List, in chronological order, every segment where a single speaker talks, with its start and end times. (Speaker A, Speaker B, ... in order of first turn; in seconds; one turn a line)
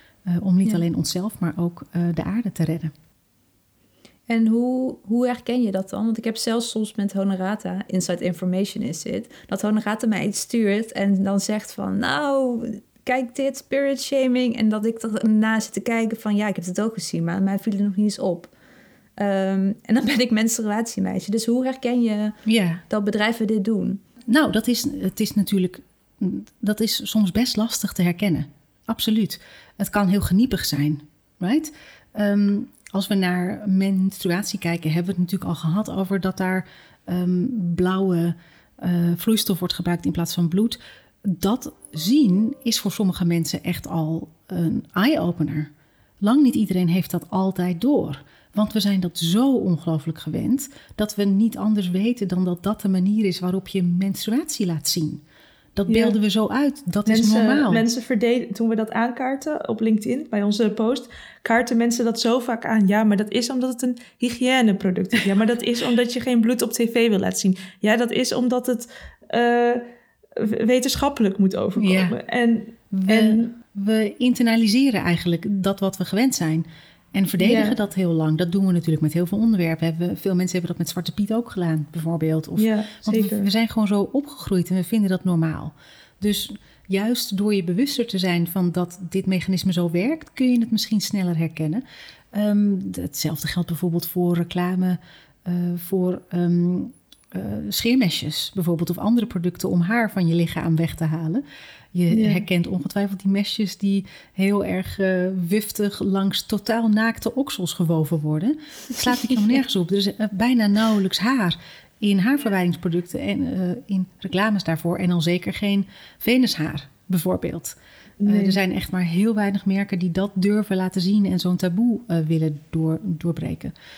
Speaker A: 0.3-2.9
Speaker B: 4.3-18.5
Speaker B: 19.2-22.4
Speaker A: 22.5-22.8
Speaker B: 22.9-24.0
Speaker A: 24.3-55.2
Speaker A: 55.8-57.9
Speaker C: 55.9-56.2
Speaker C: 57.1-69.8
Speaker C: 70.4-73.5
Speaker A: 71.8-72.2
Speaker A: 72.9-123.7
Speaker C: 77.4-77.8
Speaker C: 82.6-83.5
Speaker C: 102.1-102.5
Speaker C: 118.2-118.6